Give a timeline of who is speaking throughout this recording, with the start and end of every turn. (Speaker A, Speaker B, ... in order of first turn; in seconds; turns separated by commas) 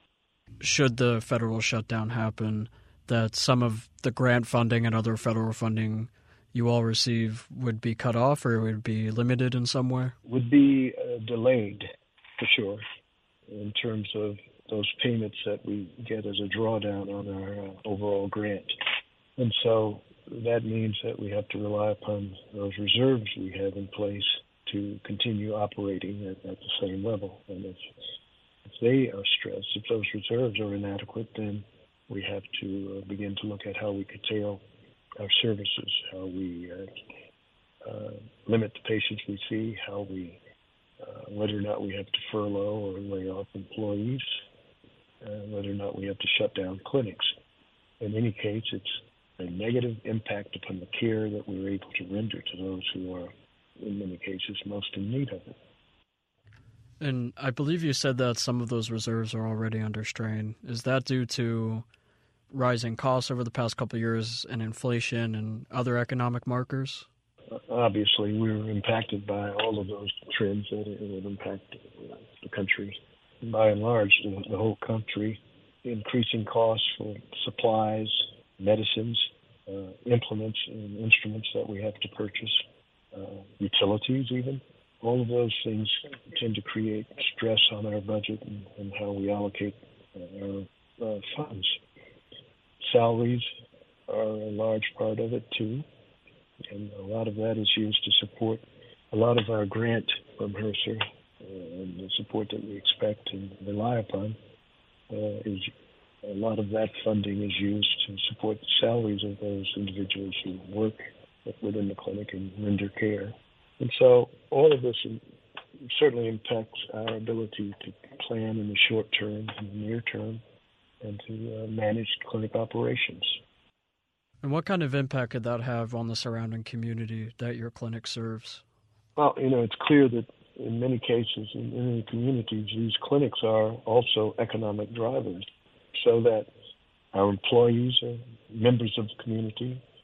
Speaker A: 0.6-10.1, Speaker B: 10.2-12.8, Speaker B: 13.5-18.8, Speaker B: 19.4-27.9, Speaker B: 28.6-34.6, Speaker B: 35.2-36.9, Speaker B: 37.8-40.4, Speaker B: 41.0-44.4, Speaker B: 45.2-47.3, Speaker B: 48.0-55.6, Speaker A: 57.0-61.9, Speaker A: 62.5-67.1, Speaker B: 67.5-91.8, Speaker B: 92.8-93.5, Speaker B: 94.1-95.8, Speaker B: 96.7-104.4, Speaker B: 105.1-115.2, Speaker B: 115.9-120.4, Speaker B: 121.0-123.4, Speaker A: 124.4-128.6, Speaker B: 129.2-136.5, Speaker B: 137.1-139.8